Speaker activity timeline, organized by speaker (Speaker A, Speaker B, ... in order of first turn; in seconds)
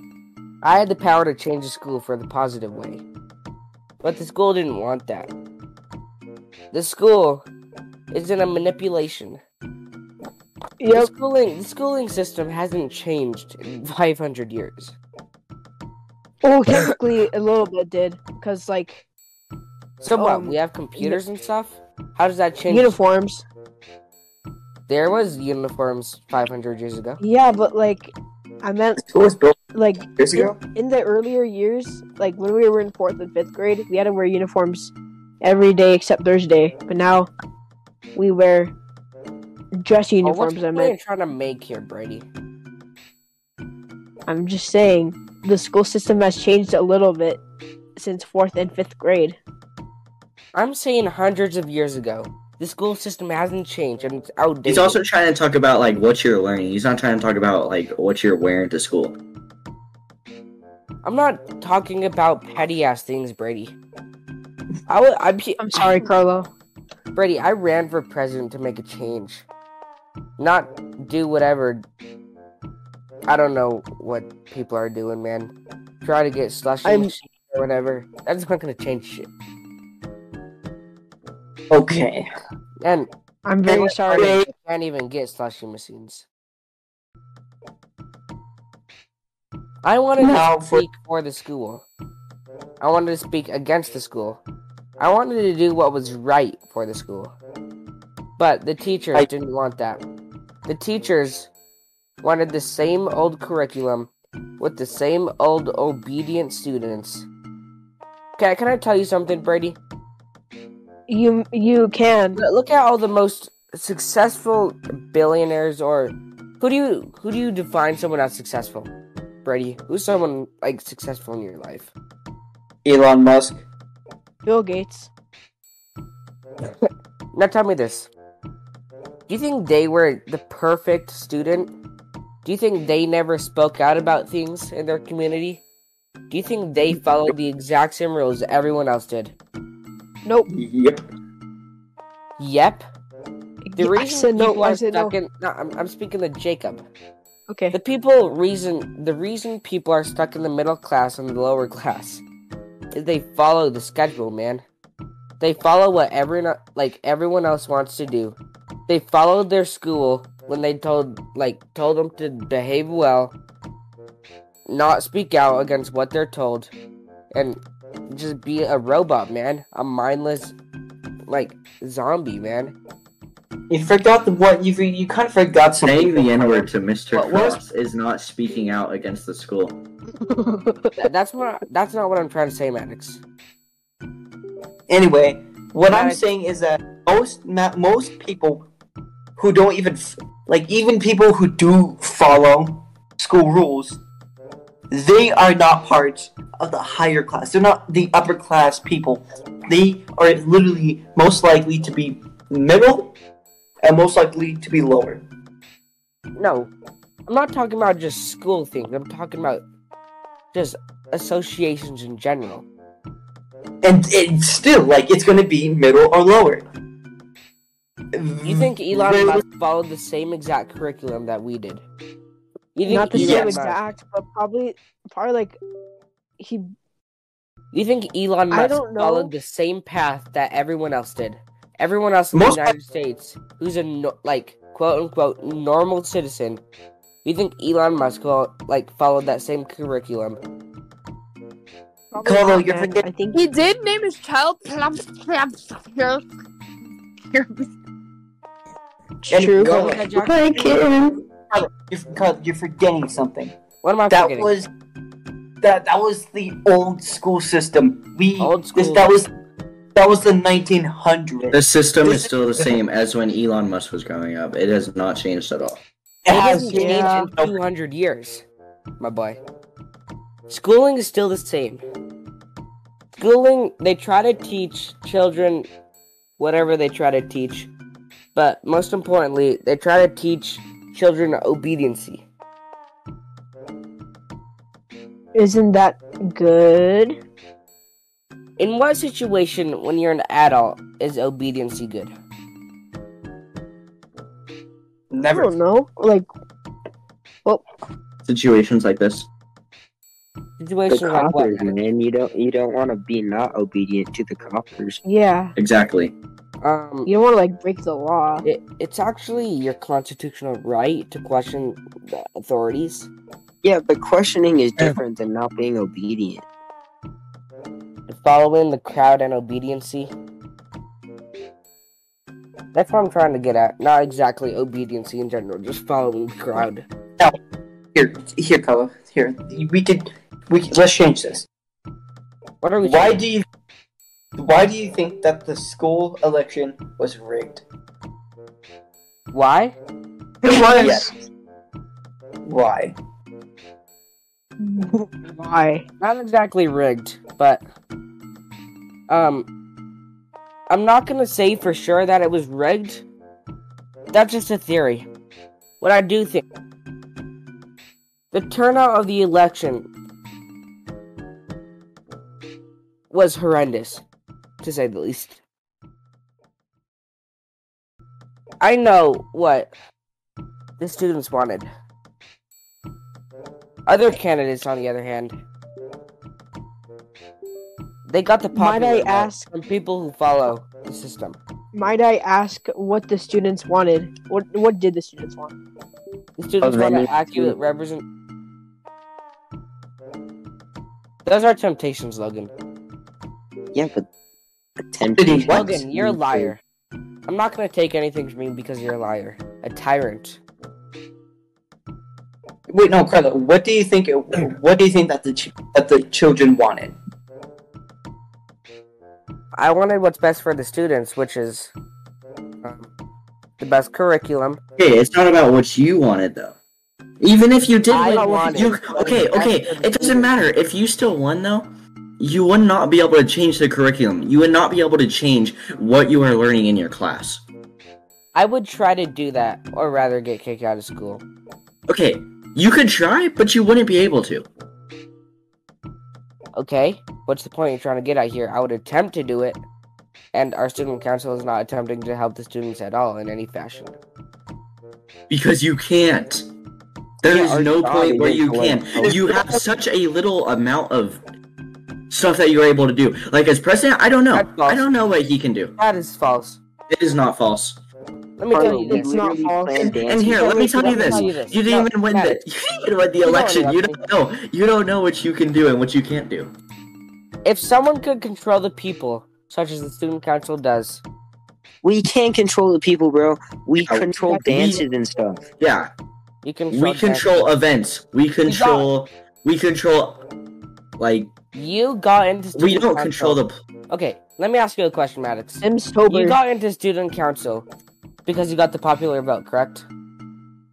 Speaker A: 0.6-3.0, 4.0-5.3, 6.7-7.5, 8.1-9.4, 10.9-14.9, 20.0-23.0, 24.9-27.2, 40.2-42.2, 50.5-55.0, 61.0-63.7, 64.9-66.0, 67.1-69.4, 70.4-71.8, 73.3-75.5, 76.0-79.3, 82.8-83.1, 83.8-86.2, 89.8-91.8, 92.8-94.4, 95.0-97.3, 98.4-100.0, 100.7-101.5, 102.2-107.3, 108.4-109.8, 112.3-118.9, 119.4-121.9, 126.6-128.1, 129.3-131.7, 132.4-135.6, 136.3-139.3, 142.4-142.8, 143.8-146.8, 147.7-152.2, 152.9-154.6, 155.4-158.4, 158.9-163.3, 164.7-166.7, 167.3-170.5, 171.3-172.7, 181.0-183.2, 185.9-186.2, 206.3-206.7, 207.3-209.6, 210.5-212.6, 218.4-221.8, 222.7-223.8, 227.7-236.6, 237.2-240.4, 249.6-250.8, 253.8-254.5, 258.4-259.1, 266.3-268.4, 269.0-269.4, 270.5-271.8, 273.1-275.7, 276.4-277.7, 278.3-282.2, 288.6-292.1, 300.6-301.8, 306.6-307.1, 308.4-313.1, 318.1-320.1, 322.7-326.8, 332.6-333.2, 339.3-339.8, 346.0-347.6, 349.1-349.5, 350.7-353.0, 354.1-355.1, 355.8-356.4, 358.3-359.9, 363.1-364.0, 364.6-365.4, 368.6-369.7, 370.8-371.7, 373.9-375.3, 378.1-381.4, 386.4-388.0, 391.2-392.5, 395.5-396.6, 397.2-400.4, 409.6-411.7, 412.6-412.9, 413.6-414.6, 417.9-420.3, 428.3-431.2, 436.6-439.6, 440.3-443.9, 454.3-454.9, 455.8-456.6, 458.4-459.1, 460.3-462.4, 463.2-464.0, 467.4-471.0, 476.4-477.5, 478.4-478.9, 481.5-487.7, 488.2-489.9
Speaker B: 10.8-11.1, 16.4-19.0, 20.1-21.2, 22.7-23.4, 27.2-29.0, 29.7-37.3, 38.1-38.7, 39.7-40.9, 44.3-47.4, 48.0-49.4, 65.6-66.5, 83.4-84.5, 111.1-112.4, 124.5-125.1, 140.2-140.5, 143.6-145.1, 147.5-147.8, 180.2-181.1, 222.8-225.6, 226.4-226.7, 228.5-229.3, 242.1-243.4, 249.2-249.9, 266.7-267.3, 285.3-287.1, 295.3-296.3, 305.0-305.5, 307.0-308.4, 344.6-345.8, 378.5-379.4, 381.7-385.5, 418.0-419.4, 458.5-459.9, 485.6-486.4
Speaker C: 29.0-30.6, 81.7-82.2, 83.7-84.5, 90.2-90.8, 122.8-123.6, 140.5-141.0, 173.7-177.6, 184.9-188.6, 189.4-194.0, 194.9-203.1, 203.8-205.2, 213.8-216.6, 218.1-219.4, 223.1-223.6, 232.3-232.7, 242.2-243.0, 249.3-253.5, 254.1-254.7, 255.6-259.3, 259.9-262.7, 266.2-267.5, 295.1-295.6, 327.9-331.5, 332.8-333.4, 334.4-337.6, 340.4-341.1, 342.4-342.9, 395.2-395.8, 402.7-406.9
Speaker D: 54.6-59.1, 175.8-179.8, 261.5-265.8, 298.2-299.3, 305.6-306.1, 414.8-416.6, 417.2-427.4, 431.9-434.5, 445.3-446.5, 447.2-451.2, 452.1-455.7, 456.9-457.8, 459.8-466.5, 473.8-474.8, 475.6-475.9, 476.7-480.2, 481.0-481.3, 482.5-483.6
Speaker E: 243.3-246.2, 247.3-247.7
Speaker F: 300.9-305.0, 313.6-316.4, 386.6-387.6, 393.7-394.1, 394.9-396.5, 447.2-449.3, 458.5-461.4, 471.8-475.4